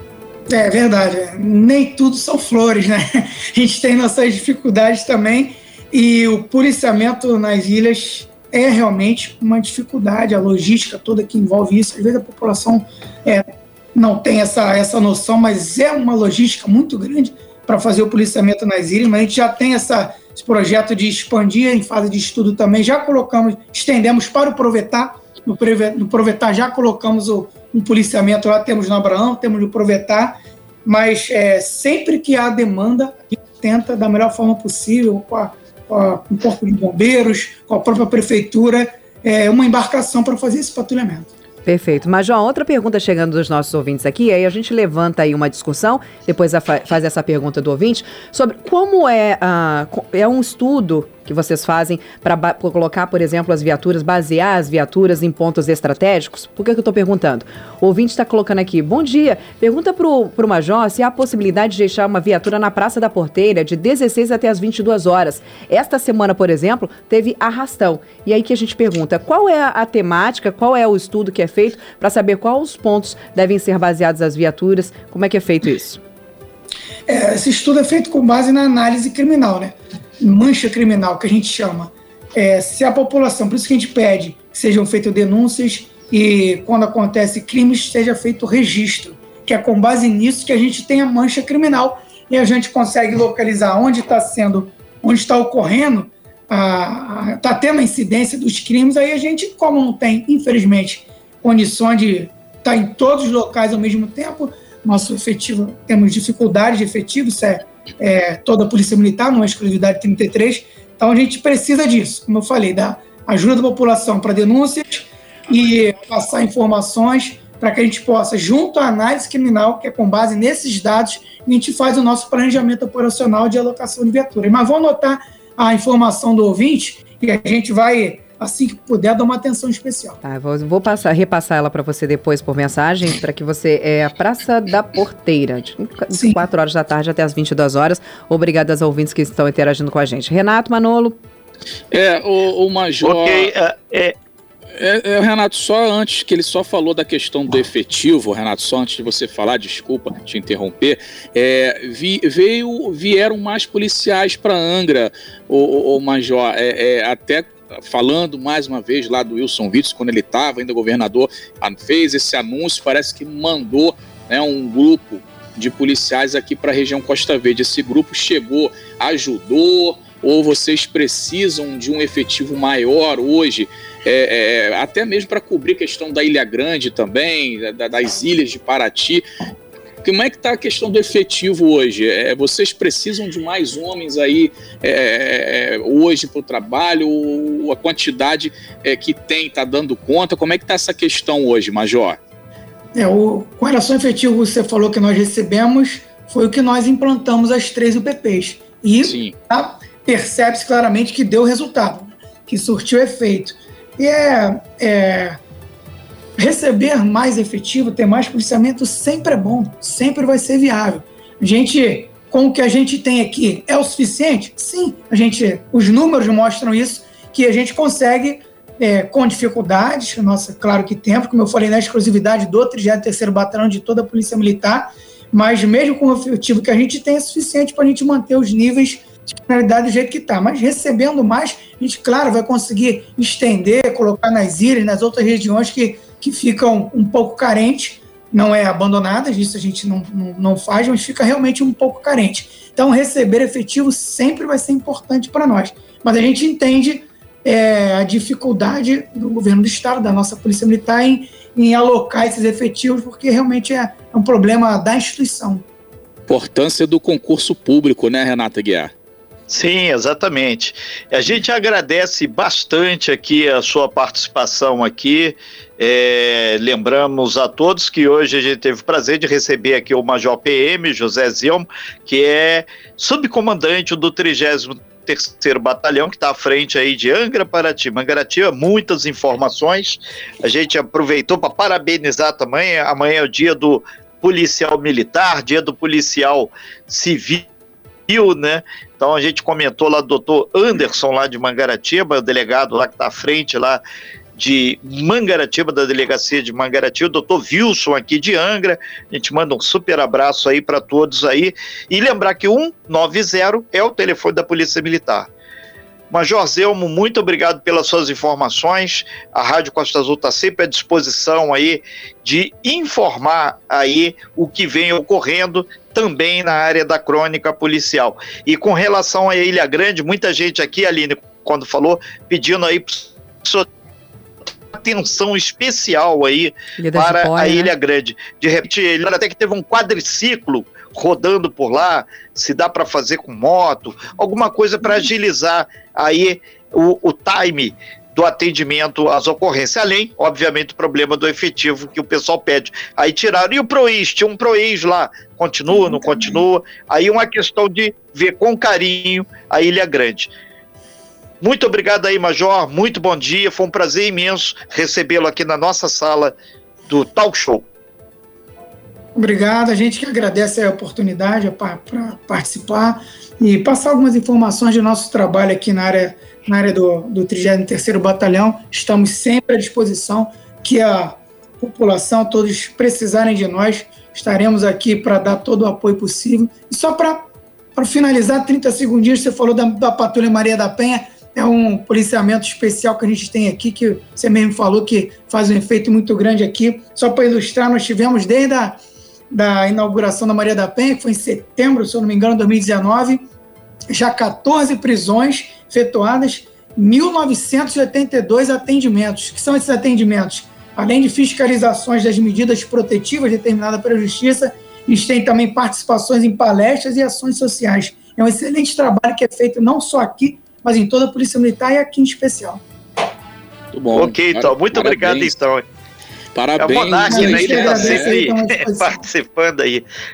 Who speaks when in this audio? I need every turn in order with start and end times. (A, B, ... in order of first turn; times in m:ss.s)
0:00.5-0:41.3 A
0:41.6-1:16.0 B
1:17.1-2:10.2 A
2:10.2-2:21.2 B
2:16.1-2:16.4 A
2:21.9-2:23.5 C
2:23.0-2:24.1 D
2:24.8-2:59.2 C
3:00.0-3:12.2 C
3:12.9-3:25.4 A
3:19.0-3:19.3 C
3:26.4-4:15.6 A
4:16.3-4:18.9 C
4:19.5-4:47.4 D
4:48.1-4:53.8 D
4:54.4-5:05.3 D
5:06.1-5:23.6 D
5:24.7-5:50.3 D
5:26.8-5:27.7 B
5:45.7-5:46.4 A
5:51.4-5:56.4 D
5:56.9-5:57.6 D
5:59.1-6:28.8 A
6:29.3-6:33.3 A
6:33.9-6:52.6 A
6:53.7-6:55.3 C
6:53.9-6:55.6 D
6:56.3-6:58.1 C
6:56.6-6:59.8 D
6:57.1-6:59.1 A